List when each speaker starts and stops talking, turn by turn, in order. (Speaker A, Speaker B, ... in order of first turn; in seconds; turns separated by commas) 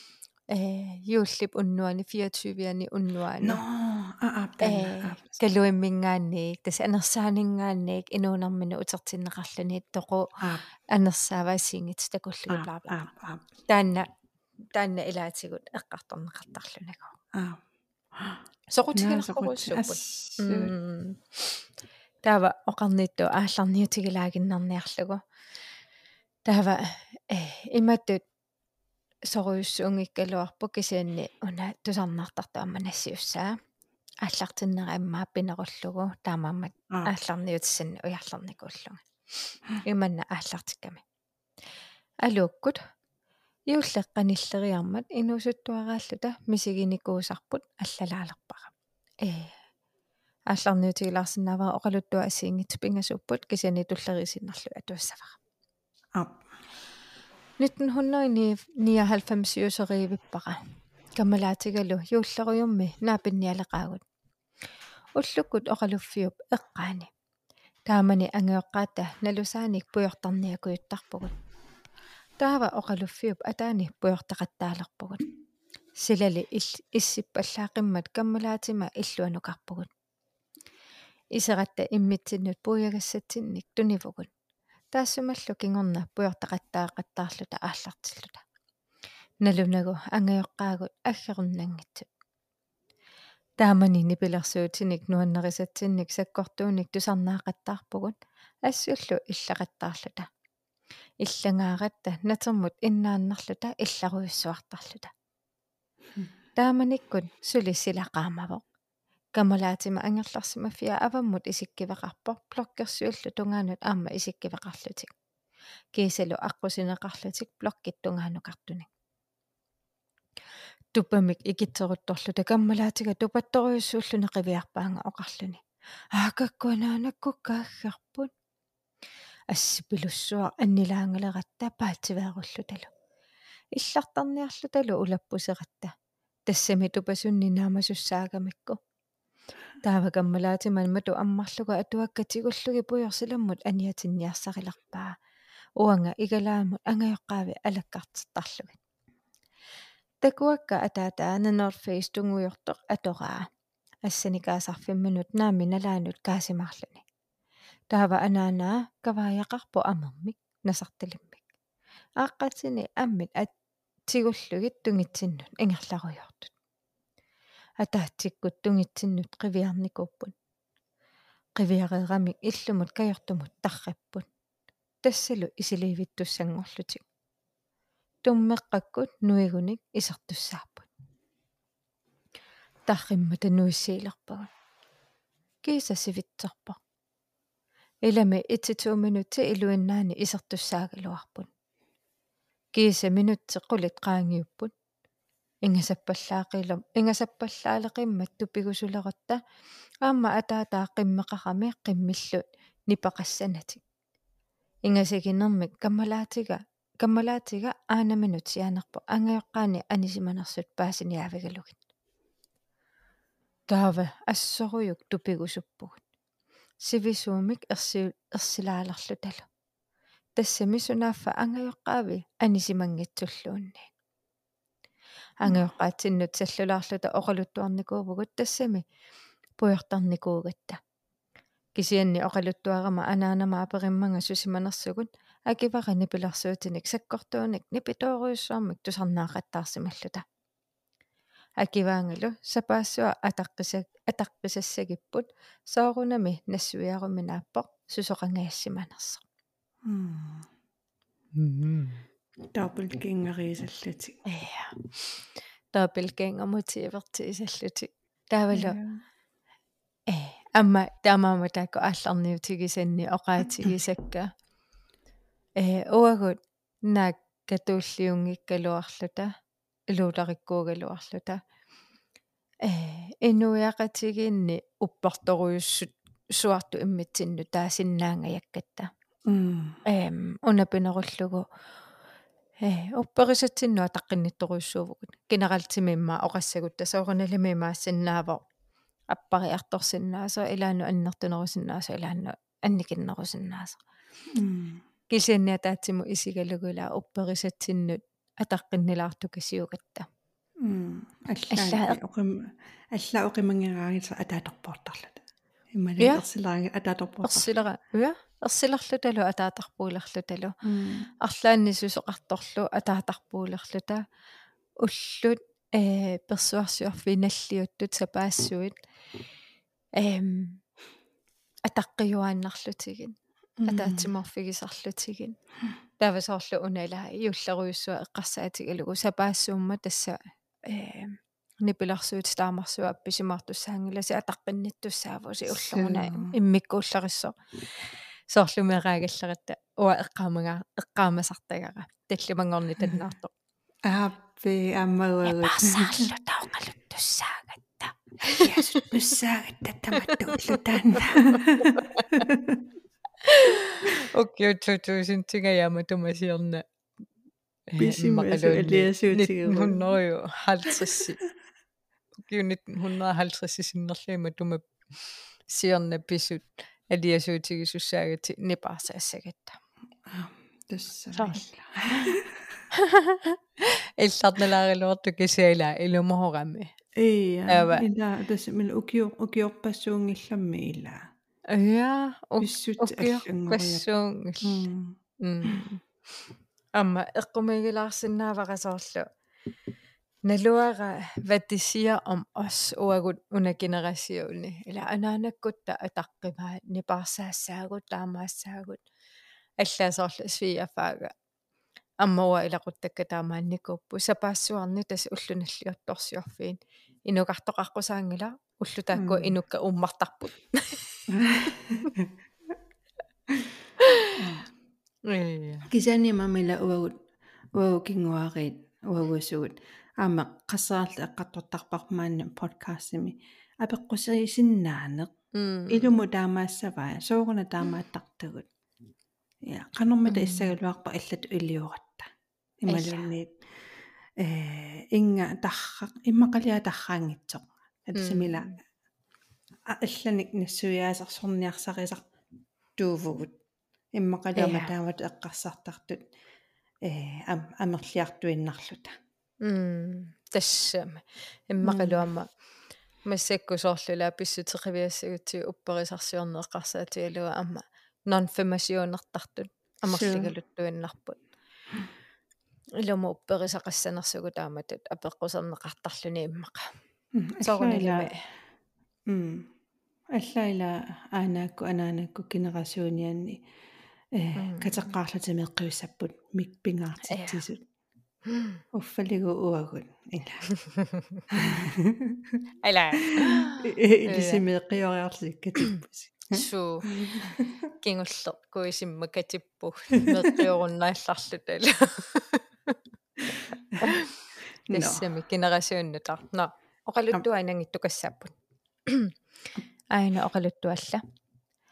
Speaker A: 0.5-3.6, Speaker B: 3.4-5.3, Speaker A: 4.6-10.3, Speaker A: 10.9-13.0, Speaker B: 12.5-13.4, Speaker A: 13.7-14.1, Speaker A: 14.7-17.1, Speaker B: 17.3-17.6, Speaker B: 18.1-18.4, Speaker A: 18.7-21.6, Speaker B: 18.9-20.7, Speaker A: 22.2-25.2, Speaker A: 26.4-28.2, Speaker A: 29.3-33.5, Speaker A: 34.2-39.0, Speaker A: 39.8-41.0, Speaker A: 42.2-42.8, Speaker A: 43.7-48.7, Speaker A: 49.2-49.5, Speaker A: 50.5-55.4, Speaker B: 56.1-56.4, Speaker A: 57.6-60.6, Speaker A: 61.1-64.0, Speaker A: 65.2-67.1, Speaker A: 67.9-71.3, Speaker A: 72.4-75.2, Speaker A: 76.0-79.9, Speaker A: 81.3-84.3, Speaker A: 84.9-88.4, Speaker A: 89.4-92.1, Speaker A: 93.6-98.1, Speaker A: 98.6-100.3, Speaker A: 101.2-105.1, Speaker A: 106.6-108.6, Speaker A: 109.3-115.1, Speaker A: 115.9-118.9, Speaker A: 120.9-125.6, Speaker A: 126.1-128.3, Speaker A: 129.5-132.9, Speaker A: 133.7-135.9, Speaker A: 136.5-138.8, Speaker A: 139.8-145.1, Speaker A: 145.8-148.8, Speaker A: 150.2-153.5, Speaker A: 154.0-157.0, Speaker A: 157.9-161.4, Speaker A: 162.2-163.5, Speaker A: 164.1-166.5, Speaker A: 167.8-170.3, Speaker A: 171.6-174.2, Speaker A: 175.0-177.0, Speaker A: 178.2-180.9, Speaker A: 182.9-184.5, Speaker A: 185.6-186.8, Speaker A: 188.0-191.5, Speaker A: 192.7-194.7, Speaker A: 195.6-199.4, Speaker A: 200.0-203.8, Speaker A: 204.8-211.8, Speaker A: 213.7-216.0, Speaker A: 216.8-219.4, Speaker A: 220.3-223.9, Speaker A: 225.4-228.8, Speaker A: 229.6-230.8, Speaker A: 231.7-240.2, Speaker A: 241.6-249.2, Speaker B: 249.8-250.5, Speaker A: 251.3-252.0, Speaker B: 252.5-254.2, Speaker A: 254.2-255.0, Speaker A: 255.7-258.8, Speaker B: 258.5-259.0, Speaker A: 260.1-264.3, Speaker A: 265.6-269.3, Speaker A: 269.9-271.4, Speaker A: 272.6-278.9, Speaker B: 279.3-279.8, Speaker A: 279.9-281.4, Speaker A: 282.6-288.4, Speaker A: 289.1-293.8, Speaker B: 294.3-294.8, Speaker A: 295.1-300.1, Speaker B: 300.6-305.2, Speaker A: 301.5-302.0, Speaker B: 305.7-307.5, Speaker A: 307.2-310.5, Speaker B: 310.6-311.1, Speaker A: 311.2-314.0, Speaker A: 314.8-318.7, Speaker A: 320.0-320.6, Speaker A: 321.6-325.4, Speaker B: 323.6-324.1, Speaker A: 326.0-343.3, Speaker B: 335.5-336.3, Speaker B: 343.8-346.1, Speaker A: 345.2-348.9, Speaker B: 348.4-352.6, Speaker A: 350.0-352.3, Speaker A: 353.2-356.6, Speaker A: 357.7-361.2, Speaker B: 357.8-359.8, Speaker A: 362.2-364.6, Speaker A: 365.5-369.6, Speaker B: 370.1-372.6, Speaker A: 371.1-371.4, Speaker A: 372.7-376.7, Speaker B: 377.0-381.0, Speaker A: 377.5-377.8, Speaker A: 381.5-384.7, Speaker B: 382.4-383.8, Speaker B: 384.4-385.6, Speaker A: 385.2-385.8, Speaker A: 386.7-389.0, Speaker A: 390.2-398.8, Speaker A: 399.6-401.1, Speaker A: 402.0-411.0, Speaker B: 408.9-409.4, Speaker B: 411.1-412.1, Speaker A: 413.8-414.2, Speaker B: 414.1-414.5, Speaker A: 415.1-415.7, Speaker B: 415.7-416.9, Speaker B: 417.5-425.1, Speaker A: 425.3-425.9, Speaker B: 425.7-428.5, Speaker B: 429.4-432.1, Speaker A: 430.1-430.5, Speaker B: 432.6-433.3, Speaker A: 432.7-433.1, Speaker B: 434.2-438.5, Speaker A: 437.9-438.4, Speaker B: 439.7-442.1, Speaker B: 442.8-443.3, Speaker B: 443.9-446.1, Speaker A: 444.4-444.7, Speaker B: 446.8-448.9, Speaker A: 449.4-452.3, Speaker B: 451.6-452.0, Speaker A: 453.1-461.2, Speaker B: 459.9-460.3, Speaker A: 462.8-466.7, Speaker B: 467.1-468.1, Speaker A: 467.4-468.1, Speaker B: 469.1-469.5, Speaker B: 470.1-473.4, Speaker B: 474.1-477.6, Speaker A: 474.4-474.9, Speaker A: 477.0-477.4, Speaker A: 478.3-478.6, Speaker B: 478.7-480.4, Speaker A: 480.6-481.2, Speaker B: 481.3-482.4, Speaker A: 482.6-484.4, Speaker B: 483.1-487.5, Speaker A: 486.3-492.8, Speaker B: 490.0-490.4, Speaker A: 493.8-494.1, Speaker B: 494.7-495.0, Speaker A: 494.7-498.3, Speaker A: 498.9-499.1, Speaker A: 499.9-501.0